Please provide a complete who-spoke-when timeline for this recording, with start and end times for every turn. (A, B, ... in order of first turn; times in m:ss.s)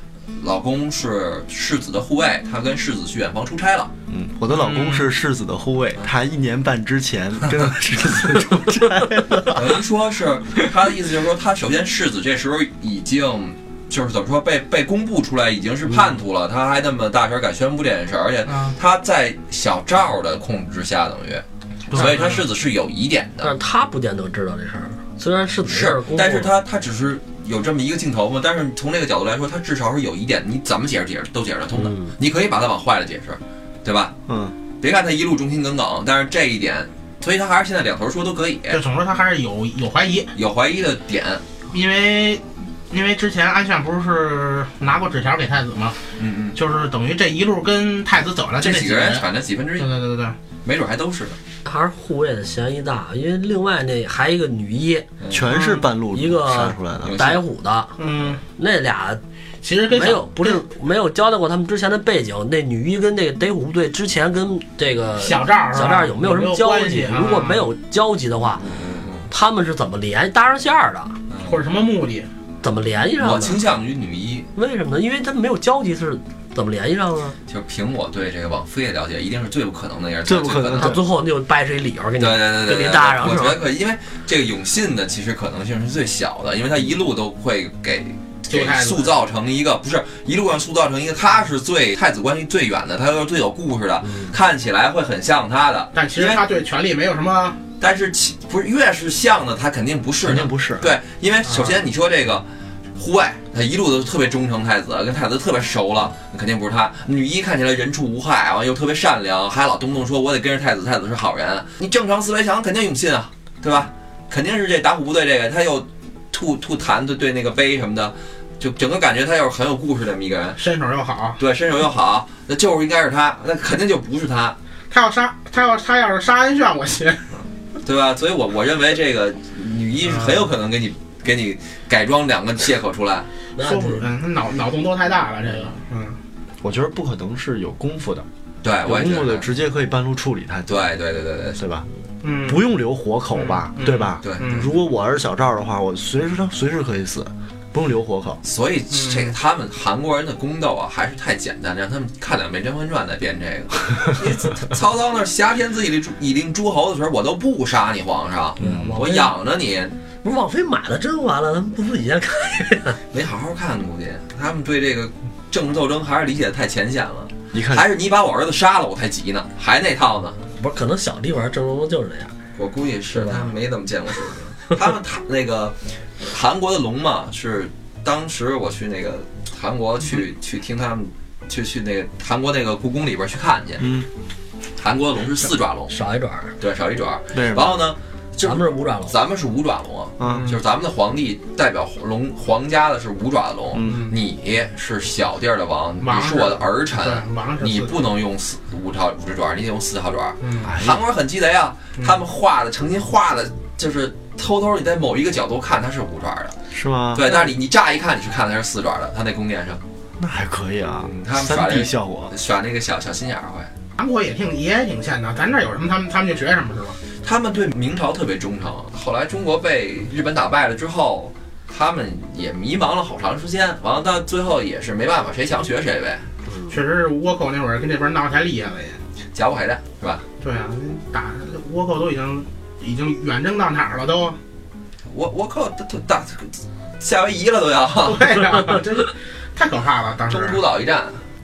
0:00.4-0:03.9 A
0:04.1-0:09.8 B
0:04.5-0:05.1 C
0:09.5-0:23.6 A
0:18.4-0:18.8 C
0:21.9-0:22.4 C
0:23.4-0:26.5 D
0:25.6-0:34.1 A
0:31.7-0:32.1 D
0:34.3-0:34.5 B
0:34.8-0:38.8 A
0:38.7-0:40.3 C
0:40.3-0:41.4 A
0:41.7-0:46.0 C
0:46.2-0:46.6 A
0:46.5-0:49.3 C
0:48.6-0:49.9 A
0:49.8-0:50.4 C
0:50.6-0:51.4 A
0:51.6-0:55.0 D
0:55.2-0:55.5 A
0:55.3-0:57.2 B
0:55.5-0:55.8 C
0:56.1-0:57.9 D
0:57.0-0:57.4 A
0:58.0-0:58.4 C
0:58.6-0:59.2 D
0:59.6-1:00.6 C
0:59.9-1:08.6 D
1:05.2-1:07.7 C
1:08.6-1:09.3 A
1:09.3-1:11.2 D
1:11.3-1:11.6 A
1:11.4-1:12.3 C
1:12.6-1:13.6 D
1:13.2-1:14.5 A
1:14.5-1:17.4 D
1:17.5-1:21.0 A
1:20.2-1:21.0 B
1:20.8-1:23.6 D
1:22.2-1:36.4 A
1:28.5-1:29.1 C
1:34.0-1:34.4 D
1:35.9-1:37.6 C
1:37.8-2:00.6 A
1:40.2-1:41.0 B
1:41.4-1:41.8 C
2:00.6-2:01.4 C
2:01.4-2:04.6 A
2:04.9-2:07.3 C
2:07.8-2:13.3 A
2:10.1-2:10.4 C
2:13.5-2:14.0 D
2:13.6-2:16.2 C
2:16.6-2:18.3 B
2:18.6-2:19.5 A
2:18.8-2:20.8 B
2:20.7-2:21.6 A
2:21.6-2:21.9 B
2:22.2-2:22.6 C
2:22.4-2:28.4 B
2:23.3-2:24.7 C
2:24.2-2:24.7 A
2:28.4-2:40.0 A
2:28.9-2:29.3 C
2:38.6-2:38.9 B
2:38.6-2:39.3 D
2:40.2-2:43.0 D
2:43.1-2:50.4 A
2:47.5-2:47.8 B
2:50.6-2:52.3 D
2:52.6-3:03.9 A
2:53.1-2:53.5 D
3:03.8-3:04.1 B
3:04.8-3:05.9 A
3:05.9-3:06.5 D
3:06.6-3:26.6 A
3:07.3-3:07.8 B
3:08.4-3:09.1 D
3:10.2-3:10.5 B
3:10.2-3:10.5 C
3:13.7-3:14.0 B
3:13.8-3:14.1 C
3:16.0-3:17.9 C
3:20.4-3:20.7 C
3:20.6-3:21.0 B
3:26.7-3:27.3 B
3:27.1-3:29.8 A
3:30.2-3:32.3 B
3:31.0-3:33.7 A
3:34.0-3:37.0 C
3:37.2-3:46.3 A
3:46.7-3:49.0 C
3:49.3-3:50.2 A
3:50.4-3:54.4 C
3:55.1-3:58.6 A
3:58.0-4:00.6 C
4:00.3-4:01.2 A